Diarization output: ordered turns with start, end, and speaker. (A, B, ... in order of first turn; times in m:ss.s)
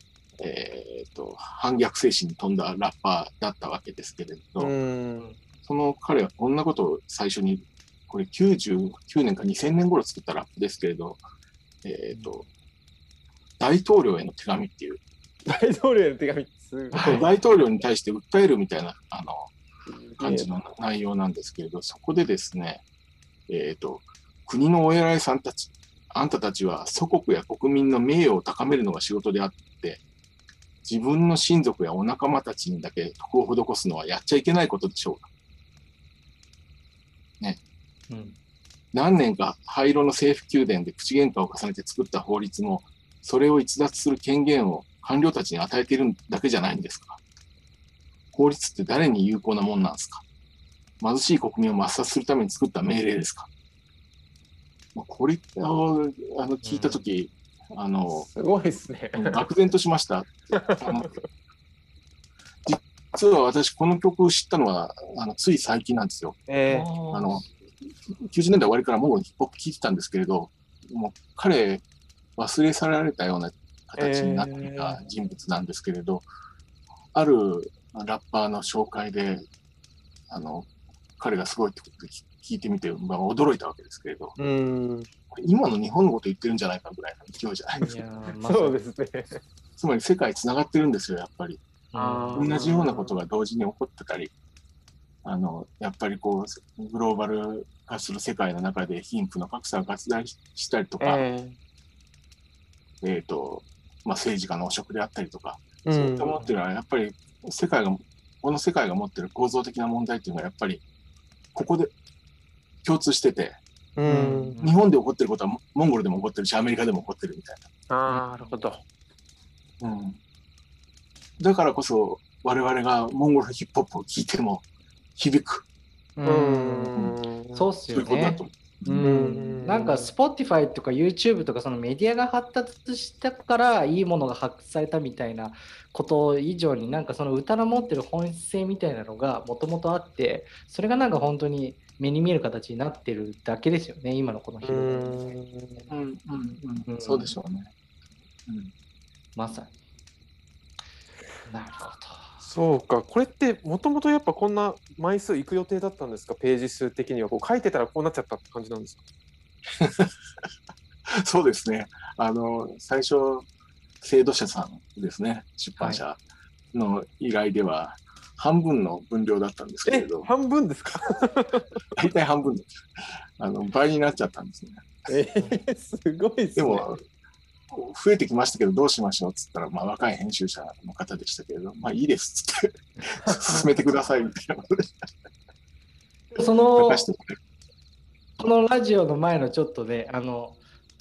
0:00.4-0:04.7 A
0:04.6-0:05.2 B
0:05.6-0:11.2 A
0:11.8-0:12.5 A
0:13.6-0:15.0 A
0:15.5-0:17.2 B
0:16.9-0:17.2 C
0:17.0-0:19.5 A
0:19.9-0:20.5 B
0:20.2-0:22.8 A
0:23.5-0:30.0 A
0:30.8-0:35.3 A
0:38.1-0:38.4 C
0:38.9-0:47.2 A
0:48.3-0:50.2 A
0:51.0-0:53.5 A
0:54.9-0:58.3 A
0:56.6-0:57.0 C
0:58.3-0:59.4 B
0:59.2-1:01.1 A
1:00.7-1:01.1 B
1:02.6-1:06.4 A
1:06.5-1:06.9 B
1:06.6-1:07.5 C
1:07.1-1:07.5 A
1:08.1-1:11.8 A
1:12.4-1:16.3 A
1:14.0-1:15.0 B
1:17.1-1:19.4 A
1:20.3-1:24.4 A
1:24.4-1:25.1 B
1:25.3-1:27.9 A
1:27.8-1:28.8 C
1:28.4-1:29.4 B
1:29.8-1:31.6 A
1:31.9-1:32.5 C
1:32.0-1:33.1 B
1:32.4-1:34.3 A
1:35.2-1:41.2 A
1:41.0-1:41.6 B
1:43.0-1:50.8 A
1:45.8-1:46.3 B
1:51.5-1:51.9 A
1:52.8-1:53.6 A
1:54.0-1:54.5 B
1:54.1-1:54.7 C
1:54.6-1:57.7 A
1:57.9-1:58.8 B
1:59.8-2:00.2 A
2:01.4-2:04.6 A
2:05.2-2:05.6 A
2:06.2-2:07.0 C
2:06.2-2:07.7 B
2:07.5-2:25.3 C
2:07.9-2:09.0 A
2:09.0-2:10.1 B
2:24.6-2:25.8 B
2:25.9-2:27.7 A
2:26.8-2:27.3 C
2:28.5-2:28.7 A
2:29.4-2:29.7 C
2:31.4-2:32.3 C
2:32.4-2:39.0 B
2:39.8-2:40.1 A
2:41.1-2:43.5 A
2:44.0-2:46.2 A
2:46.7-2:50.3 A
2:49.8-2:51.6 B
2:51.9-2:52.7 A
2:53.4-2:55.1 A
2:55.1-2:56.8 B
2:56.6-2:57.0 A
2:57.7-3:04.9 A
3:03.3-3:03.7 B
3:06.3-3:07.0 C
3:06.8-3:07.4 A
3:08.4-3:10.6 C